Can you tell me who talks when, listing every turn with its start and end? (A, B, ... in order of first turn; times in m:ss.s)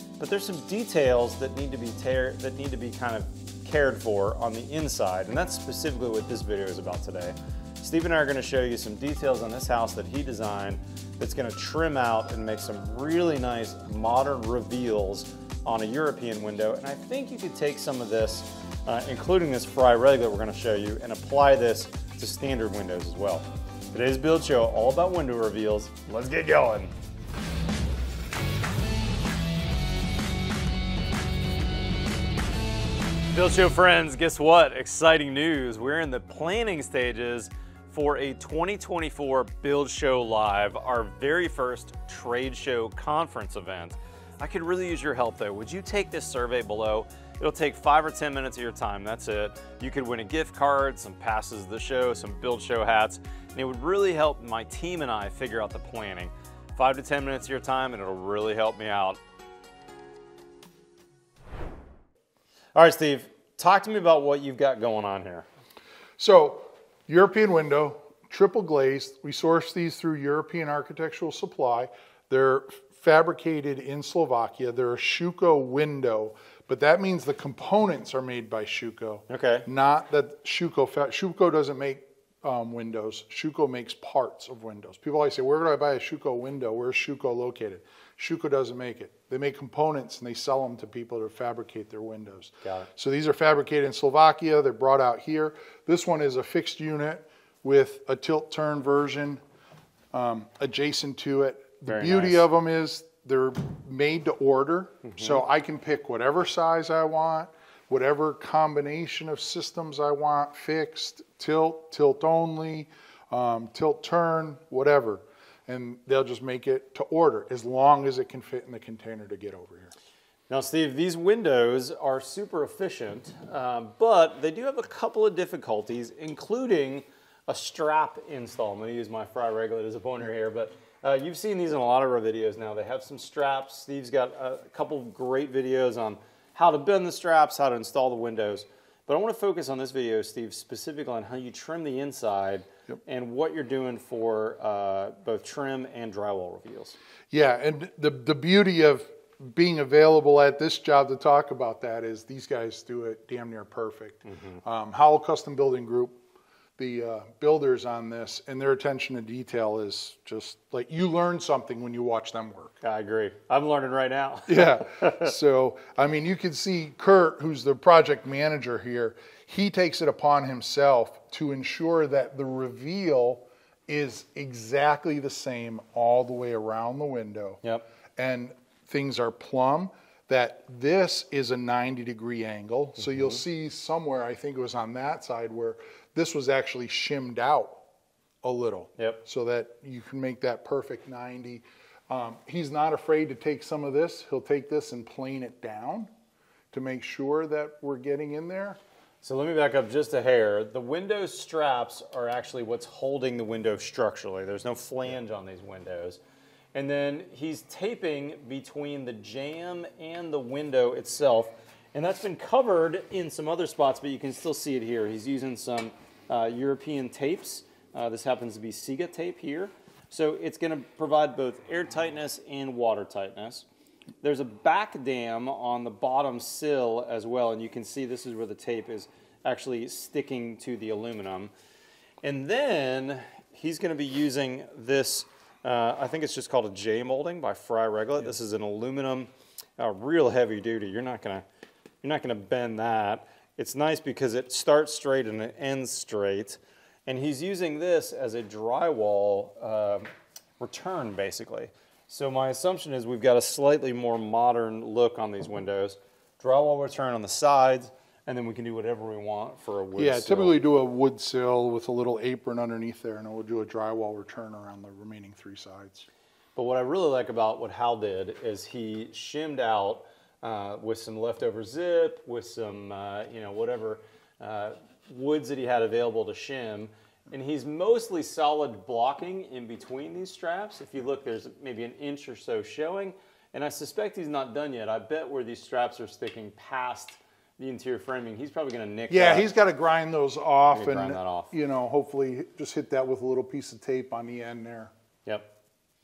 0:00.2-0:26.9 A
0:33.3-0:59.2 A
1:02.7-1:05.4 A
1:06.2-1:39.4 B
1:19.3-1:19.6 A
1:32.6-1:32.9 A
1:40.1-1:59.9 B
1:41.8-1:42.4 A
1:45.0-1:45.4 A
2:00.5-2:27.0 A
2:27.3-2:36.2 B
2:34.3-2:34.6 A
2:36.8-2:42.8 B
2:42.8-2:45.3 A
2:44.5-2:57.6 B
2:58.2-3:07.8 B
3:03.0-3:03.4 A
3:08.4-3:16.1 B
3:16.7-3:18.8 B
3:19.2-3:26.2 A
3:26.7-3:43.6 A
3:44.2-3:51.5 A
3:52.2-4:01.4 A
4:02.0-4:10.1 A
4:10.6-4:20.6 A
4:20.0-4:26.1 B
4:26.6-4:49.5 A
4:49.1-4:54.9 B
4:50.7-4:51.5 A